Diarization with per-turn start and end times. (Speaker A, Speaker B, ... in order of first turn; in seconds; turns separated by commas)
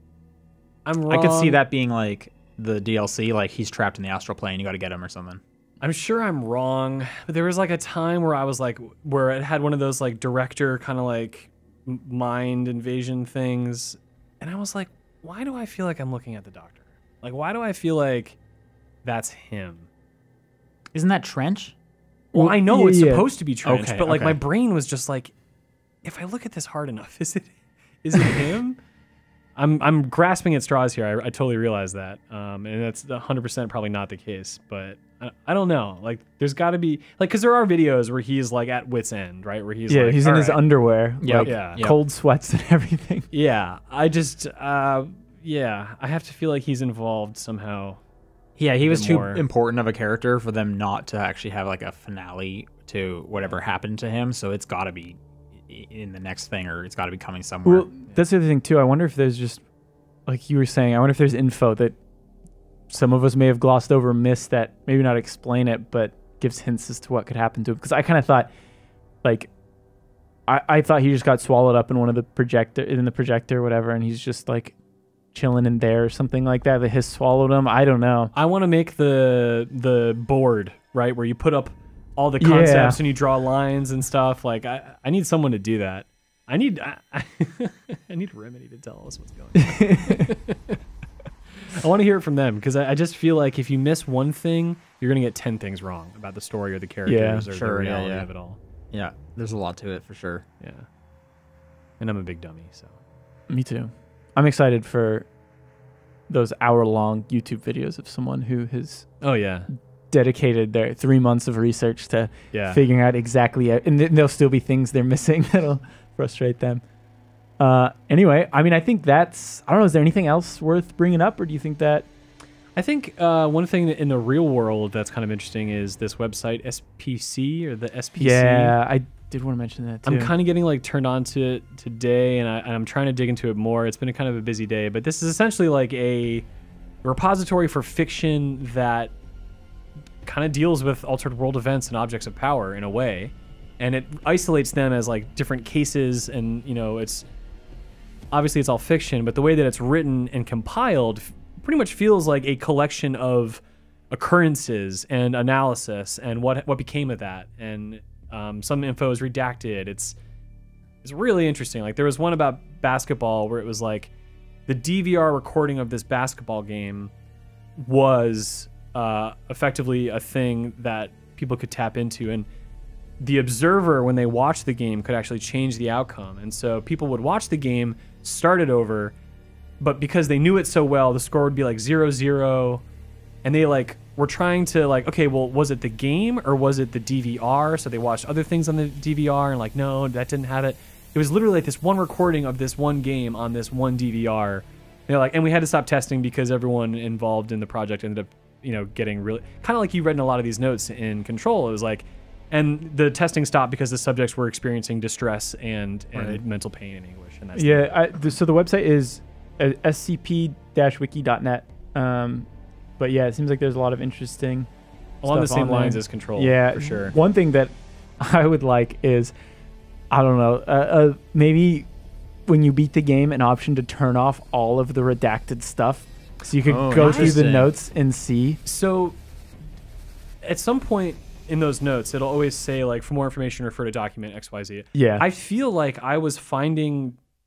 Speaker A: 0.8-1.6, Speaker B: 1.1-5.4, Speaker A: 5.8-18.4, Speaker A: 19.0-19.9, Speaker B: 20.9-21.7, Speaker C: 22.3-23.2, Speaker A: 22.3-25.3, Speaker B: 23.6-24.4, Speaker A: 26.0-28.8, Speaker A: 29.6-40.6, Speaker C: 39.9-43.3, Speaker B: 41.2-42.0, Speaker A: 41.4-41.8, Speaker A: 43.3-48.0, Speaker B: 48.6-57.9, Speaker A: 48.9-49.4, Speaker C: 57.6-59.6, Speaker C: 60.3-61.9, Speaker C: 62.9-68.5, Speaker C: 69.2-69.5, Speaker C: 70.5-74.7, Speaker C: 75.3-78.3, Speaker A: 78.3-90.8, Speaker C: 82.4-83.0, Speaker C: 89.5-90.3, Speaker A: 91.7-98.6, Speaker C: 97.0-97.5, Speaker B: 97.5-98.3, Speaker B: 98.9-100.4, Speaker A: 100.6-100.9, Speaker A: 102.0-102.9, Speaker C: 103.5-105.3, Speaker C: 106.3-109.1, Speaker A: 109.2-109.7, Speaker C: 110.1-116.8, Speaker A: 112.5-112.8, Speaker C: 117.6-122.1, Speaker A: 122.8-128.7, Speaker C: 128.2-130.3, Speaker A: 130.0-136.4, Speaker A: 137.0-139.1, Speaker A: 140.2-147.2, Speaker A: 148.3-160.2, Speaker A: 161.0-164.1, Speaker A: 164.7-167.1, Speaker A: 167.8-172.5, Speaker A: 173.2-179.1, Speaker A: 179.8-182.8, Speaker A: 183.4-207.9, Speaker B: 206.1-206.4, Speaker C: 207.6-212.5, Speaker C: 213.0-214.7, Speaker A: 215.2-217.1, Speaker C: 215.2-219.3, Speaker C: 220.1-221.9, Speaker C: 222.5-228.6, Speaker B: 226.6-227.7, Speaker A: 227.0-227.4, Speaker A: 228.6-229.2, Speaker A: 230.4-237.2, Speaker C: 234.9-235.2